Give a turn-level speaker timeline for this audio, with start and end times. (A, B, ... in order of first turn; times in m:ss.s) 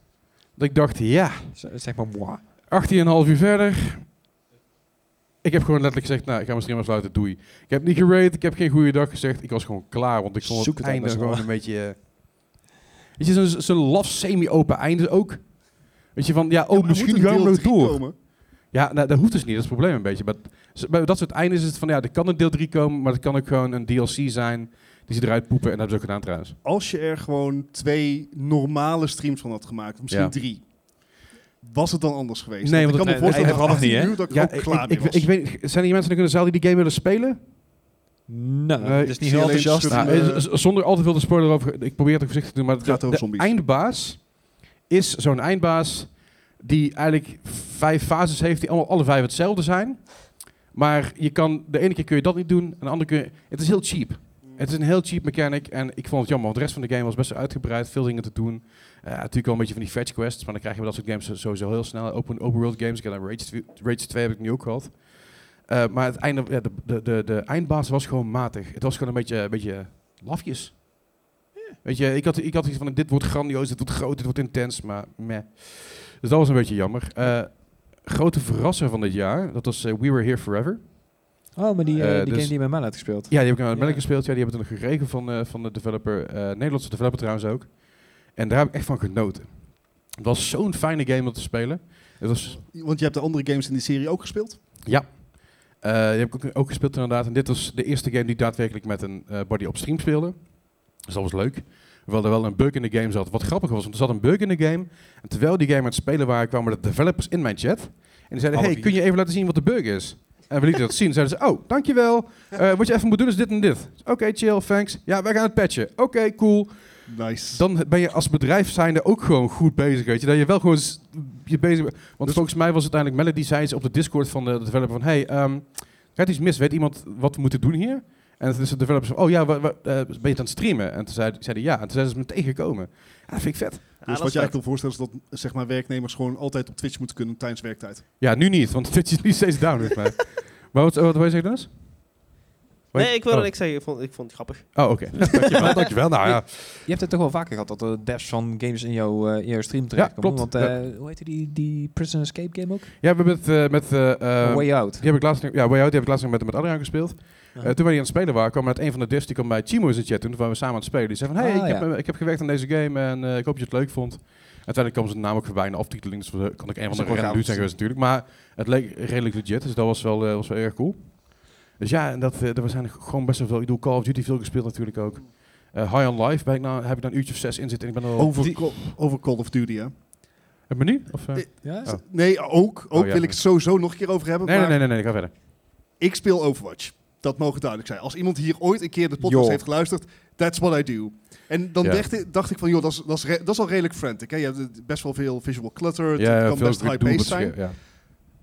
0:00.6-0:01.6 A
0:01.5-0:02.4 B
0:02.7-0:04.1 A
0:05.4-0:12.6 A
0:10.4-0:11.5 B
0:13.2-0:26.6 A
0:16.7-0:18.2 C
0:26.6-0:35.3 C
0:32.6-0:37.4 A
0:33.0-0:34.2 B
0:38.3-0:40.3 B
0:38.8-1:11.1 A
0:39.1-0:40.5 C
0:42.8-0:43.6 C
1:11.8-1:21.4 A
1:21.6-1:24.0 B
1:22.0-1:32.6 A
1:32.5-1:34.6 C
1:34.8-2:14.0 A
1:48.5-1:49.0 B
1:57.1-1:57.7 C
2:14.0-2:14.6 D
2:14.0-2:18.0 C
2:18.2-2:21.8 A
2:22.9-2:23.5 A
2:22.9-2:25.2 D
2:24.8-2:26.9 A
2:26.2-2:32.9 B
2:29.9-2:30.8 A
2:33.0-2:58.8 A
2:34.4-2:35.1 B
2:41.4-2:41.9 B
2:46.9-2:47.8 B
2:58.2-2:59.9 C
3:00.7-3:02.0 A
3:01.3-3:04.8 C
3:01.6-3:01.9 B
3:02.9-3:03.4 A
3:04.4-3:05.3 A
3:06.0-3:18.0 C
3:09.2-3:09.6 B
3:11.8-3:12.1 A
3:16.2-3:17.8 A